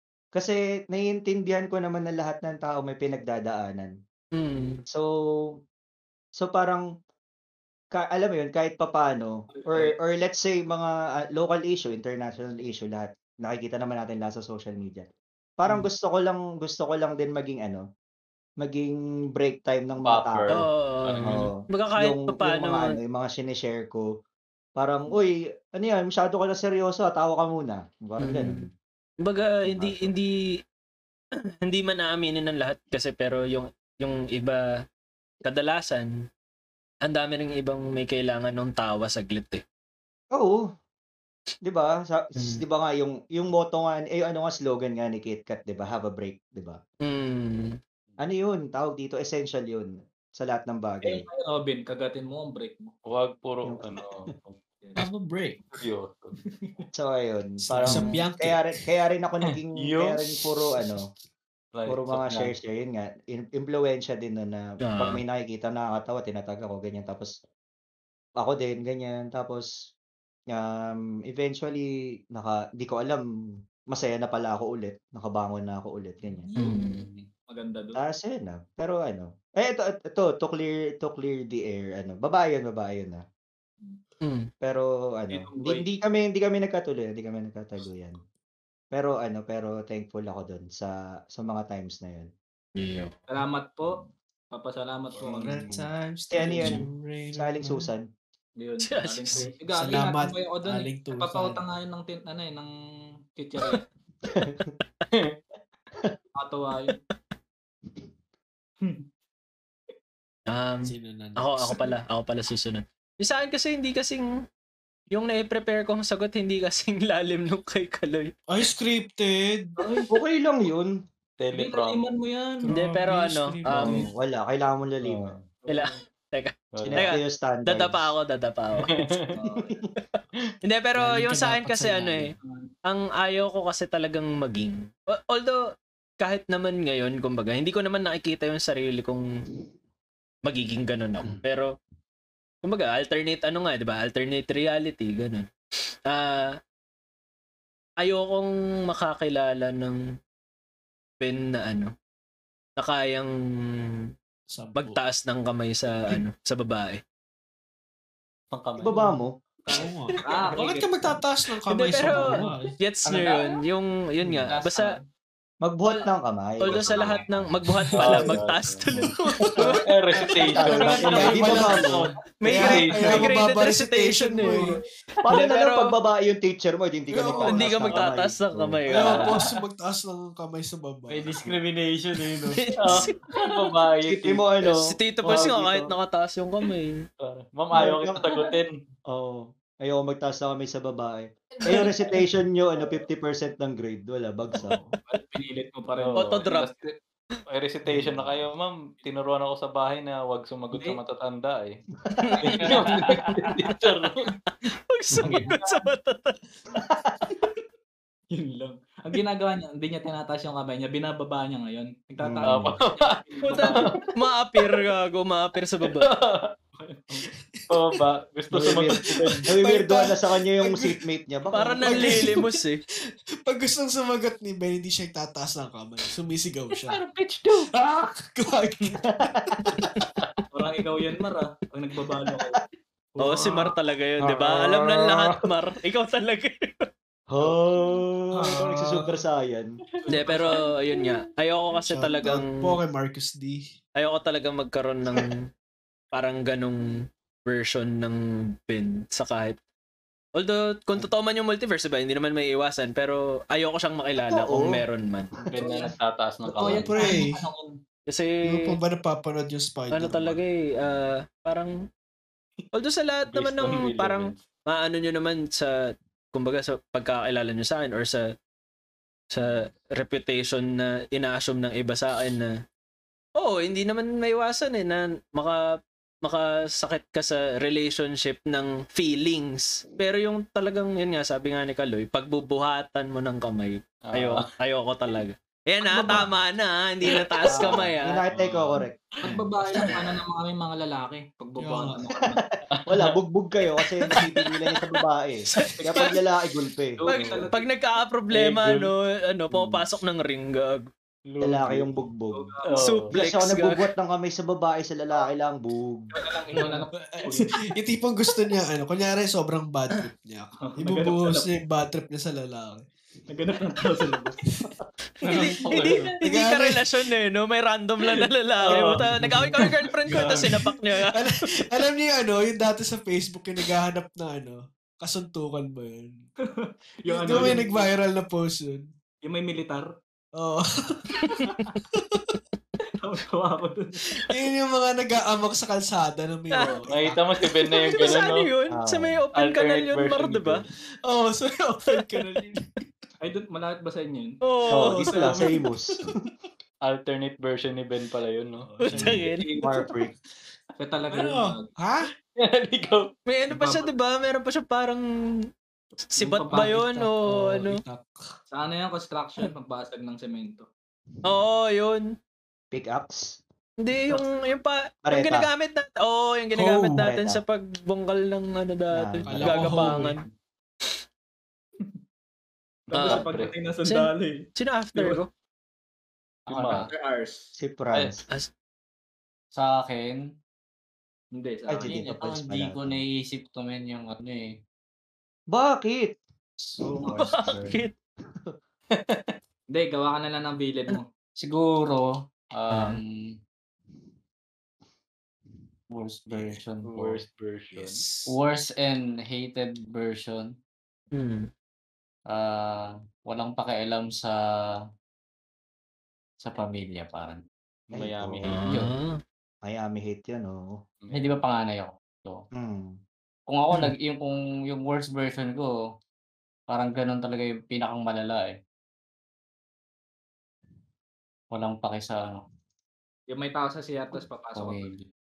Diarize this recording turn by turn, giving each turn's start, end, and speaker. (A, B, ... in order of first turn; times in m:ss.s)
0:00.3-0:03.9 A
0:04.3-0:04.8 B
0:06.4-0:06.8 A
0:07.9-0:15.0 A
0:09.5-0:09.9 C
0:15.6-0:17.8 A
0:18.6-0:20.6 A
0:20.0-0:21.5 D
0:20.5-0:22.9 B
0:21.2-0:24.1 A
0:24.8-0:28.7 A
0:28.2-0:28.6 B
0:29.2-0:30.3 B
0:29.7-0:30.1 A
0:31.6-0:34.6 B
0:35.4-0:36.1 B
0:37.0-0:39.6 B
0:40.3-0:40.6 A
0:41.6-0:46.8 A
0:42.4-0:42.6 B
0:47.0-0:47.8 B
0:48.2-0:51.2 A
0:51.0-0:52.9 C
0:53.1-0:54.6 D
0:53.6-0:54.1 A
0:55.0-0:55.6 E
0:55.7-0:56.3 D
0:56.4-0:56.8 C
0:56.9-1:01.0 A
0:57.6-0:58.6 E
0:57.8-0:58.1 B
0:59.7-1:00.3 D
1:01.7-1:02.5 D
1:01.9-1:07.3 A
1:04.9-1:05.2 B
1:08.4-1:09.7 A
1:10.5-1:13.2 A
1:13.9-1:16.5 A
1:16.2-1:16.7 C
1:16.6-1:17.0 B
1:16.7-1:17.2 D
1:17.5-1:18.0 C
1:18.0-1:23.2 A
1:24.2-1:24.5 B
1:24.6-1:28.2 A
1:25.3-1:25.8 C
1:28.9-1:32.3 A
1:32.8-1:33.1 B
1:33.3-1:35.6 C
1:35.2-1:37.9 E
1:35.3-1:38.0 A
1:38.6-1:42.7 C
1:38.8-1:39.5 B
1:39.3-1:41.6 E
1:43.4-1:43.8 C
1:44.2-1:44.7 A
1:46.4-1:47.0 C
1:50.5-1:54.3 B
1:50.8-1:51.9 E
1:55.1-1:58.3 B
1:58.5-1:59.8 E
1:59.8-2:00.1 C
2:00.1-2:00.9 A
2:01.4-2:02.0 D
2:01.5-2:02.7 C
2:02.6-2:04.1 E
2:02.7-2:04.0 B
2:03.7-2:05.4 A
2:05.6-2:06.0 C
2:05.7-2:09.1 B
2:06.7-2:07.2 D
2:06.8-2:08.1 A
2:08.8-2:09.4 D
2:09.4-2:09.8 C
2:10.6-2:12.3 B
2:11.0-2:12.3 E
2:12.9-2:15.6 B
2:16.2-2:19.2 B
2:20.4-2:21.7 B
2:22.6-2:25.4 B
2:26.1-2:26.5 B
2:28.0-2:30.0 B
2:31.2-2:31.9 B
2:32.8-2:33.3 B
2:34.5-2:35.0 E
2:34.8-2:37.0 B
2:38.5-2:39.0 D
2:38.8-2:39.3 A
2:39.7-2:40.9 C
2:39.7-2:42.7 E
2:41.7-2:44.9 B
2:43.0-2:43.5 F
2:44.5-2:45.0 F
2:45.6-2:47.3 A
2:46.6-2:49.8 B
2:47.9-2:48.4 E
2:48.0-2:48.8 D
2:49.0-2:54.8 E
2:49.6-2:53.3 D
2:50.4-2:52.0 A
2:51.0-2:51.7 B
2:52.4-2:54.7 B
2:55.2-2:58.8 A
2:55.3-2:55.9 B
2:57.1-2:57.9 E
2:57.4-2:59.3 B
2:58.9-3:01.4 E
3:01.1-3:02.6 F
3:02.6-3:03.1 B
3:02.8-3:04.5 D
3:04.0-3:05.9 A
3:04.6-3:07.0 B
3:07.2-3:08.8 D
3:07.8-3:08.2 A
3:09.1-3:14.8 A
3:14.5-3:14.9 E
3:15.1-3:16.3 C
3:16.0-3:16.9 D
3:16.2-3:16.7 B
3:17.5-3:21.8 D
3:22.0-3:22.4 A
3:22.2-3:23.1 B
3:22.4-3:24.3 D
3:24.7-3:26.4 B
3:25.2-3:25.4 A
3:25.2-3:25.8 C
3:26.7-3:27.1 A
3:28.3-3:33.9 C
3:32.2-3:32.7 A
3:32.4-3:33.9 D
3:33.5-3:36.1 B
3:35.8-3:36.5 D
3:36.8-3:37.2 C
3:37.6-3:38.0 E
3:37.7-3:39.5 D
3:38.5-3:42.3 A
3:38.6-3:41.0 E
3:41.5-3:42.8 B
3:41.8-3:42.6 E
3:43.4-3:47.0 E
3:46.9-3:47.7 D
3:47.7-3:50.1 E
3:49.3-3:49.6 A
3:50.5-3:52.6 C
3:53.2-3:53.7 C
3:53.2-3:56.8 B
3:54.2-3:55.3 A
3:57.3-3:59.7 A
3:58.3-3:58.8 C
4:00.0-4:00.6 C
4:00.1-4:02.7 B
4:01.9-4:03.6 E
4:04.0-4:05.4 B
4:06.1-4:06.8 B
4:07.4-4:09.6 B
4:10.4-4:15.3 B
4:14.3-4:14.8 A
4:15.5-4:17.1 D
4:15.6-4:15.9 C
4:16.5-4:17.7 C
4:16.6-4:17.4 E
4:18.1-4:18.6 B
4:18.4-4:20.4 E
4:19.9-4:21.7 B
4:22.7-4:25.7 B
4:23.3-4:24.4 D
4:26.3-4:28.2 B
4:29.3-4:32.5 B
4:33.4-4:35.6 B
4:36.2-4:48.2 B
4:44.1-4:44.5 D
4:45.8-4:46.3 C
4:47.5-4:49.4 A
4:48.3-4:48.7 E
4:49.2-4:52.4 C
4:51.6-4:52.0 E
4:52.2-4:57.0 A
4:52.7-4:53.1 D
4:55.6-4:56.1 B
4:57.0-4:57.6 C
4:57.1-5:00.8 B
4:57.1-4:57.5 D
4:58.3-4:58.9 D
5:01.3-5:01.9 D
5:01.4-5:02.5 A
5:02.3-5:02.9 C
5:02.6-5:03.1 D
5:02.8-5:03.9 B
5:03.1-5:06.1 A
5:06.1-5:07.6 C
5:07.0-5:12.9 E
5:10.6-5:11.5 C
5:13.3-5:14.4 C
5:15.2-5:21.4 B
5:15.3-5:16.1 D
5:15.3-5:16.8 E
5:18.7-5:19.0 D
5:19.0-5:26.2 E
5:26.6-5:27.9 C
5:27.1-5:28.9 E
5:29.2-5:29.9 C
5:30.4-5:31.0 E
5:31.3-5:31.8 C
5:31.9-5:32.4 E
5:32.9-5:34.0 C
5:34.2-5:37.3 E
5:36.5-5:36.8 B
5:36.7-5:38.5 D
5:37.7-5:40.6 B
5:38.7-5:39.2 A
5:39.3-5:40.6 D
5:41.1-5:42.8 E
5:43.2-5:44.4 C
5:44.4-5:45.3 B
5:44.7-5:46.1 A
5:45.0-5:46.1 E
5:46.8-5:48.7 D
5:48.6-5:49.2 E
5:48.9-5:49.5 B
5:49.0-5:50.1 A
5:49.4-5:49.8 C
5:50.8-5:51.7 C
5:51.1-5:52.0 E
5:52.4-5:53.1 D
5:53.3-5:55.0 B
5:56.1-5:57.8 B
5:56.2-5:57.0 C
5:57.2-5:58.2 E
5:58.5-6:00.7 C
6:01.2-6:02.0 B
6:02.7-6:03.4 A
6:03.8-6:10.2 B
6:05.0-6:05.5 A
6:06.6-6:07.0 E
6:06.9-6:07.4 A
6:08.9-6:09.5 A
6:09.3-6:10.1 E
6:12.9-6:15.2 C
6:12.9-6:13.2 B
6:12.9-6:13.5 D
6:13.8-6:15.3 B
6:16.5-6:16.8 F
6:16.5-6:16.9 D
6:16.9-6:17.5 C
6:17.6-6:18.2 A
6:19.5-6:20.2 F
6:21.3-6:22.0 C
6:21.7-6:23.0 A
6:21.8-6:24.5 F
6:25.5-6:26.1 A
6:26.8-6:27.3 C
6:26.9-6:27.8 A
6:27.2-6:27.9 B
6:28.9-6:29.3 D
6:29.7-6:31.0 C
6:31.4-6:33.2 F
6:32.7-6:33.0 B
6:35.9-6:36.9 F
6:36.3-6:37.2 E
6:36.9-6:38.0 D
6:37.7-6:38.3 E
6:38.3-6:40.5 F
6:41.1-6:41.4 B
6:42.3-6:44.3 F
6:46.4-6:47.4 F
6:47.9-6:48.7 D
6:48.0-6:48.6 A
6:48.4-6:49.1 B
6:48.6-6:48.9 F
6:49.6-6:50.6 A
6:51.0-6:51.4 D
6:51.1-6:52.4 F
6:52.6-6:53.0 A
6:53.5-6:55.7 F
6:56.7-6:58.6 F
7:01.5-7:02.4 F
7:03.3-7:04.9 C
7:04.6-7:05.0 F